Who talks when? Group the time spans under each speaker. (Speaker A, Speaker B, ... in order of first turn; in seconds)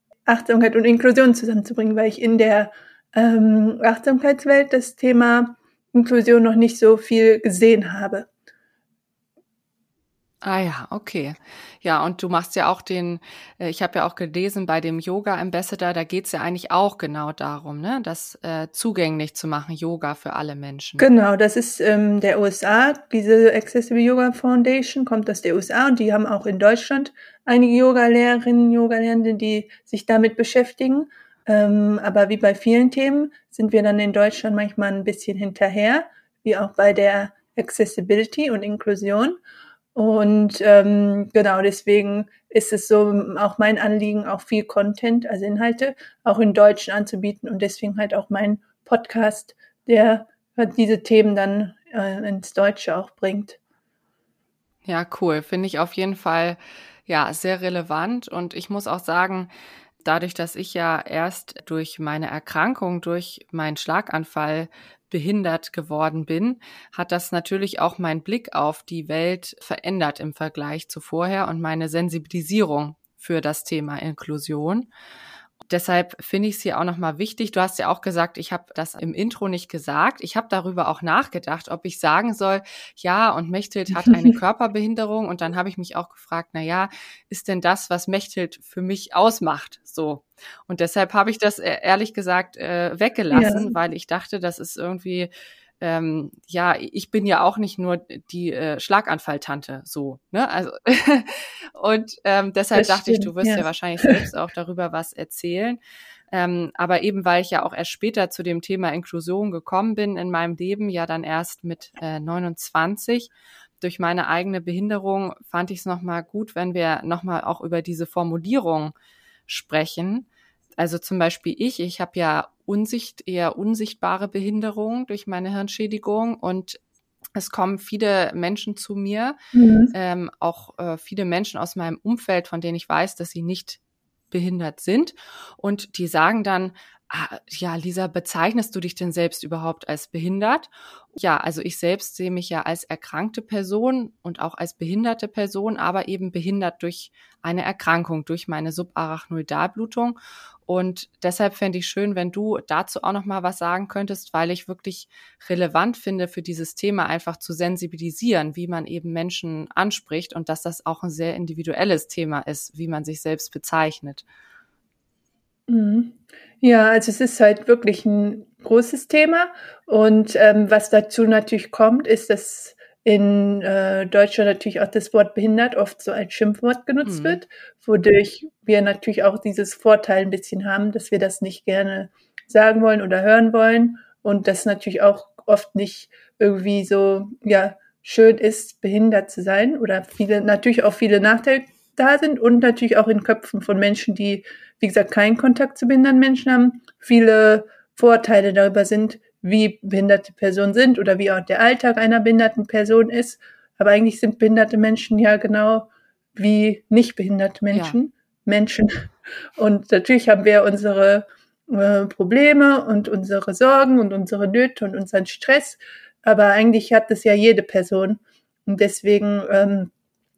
Speaker A: 0.3-8.3, 21.0-39.4, 40.0-53.6, 84.1-84.3, 93.3-93.7, 102.8-104.1, 129.5-129.9, 165.7-219.9
Speaker B: 10.4-21.1, 54.9-59.5, 60.0-74.9, 75.7-95.3, 95.8-105.8, 106.3-118.9, 119.5-120.3, 120.8-126.8, 127.4-129.4, 129.9-133.8, 134.3-150.2, 150.7-164.2, 177.0-177.4, 207.7-208.0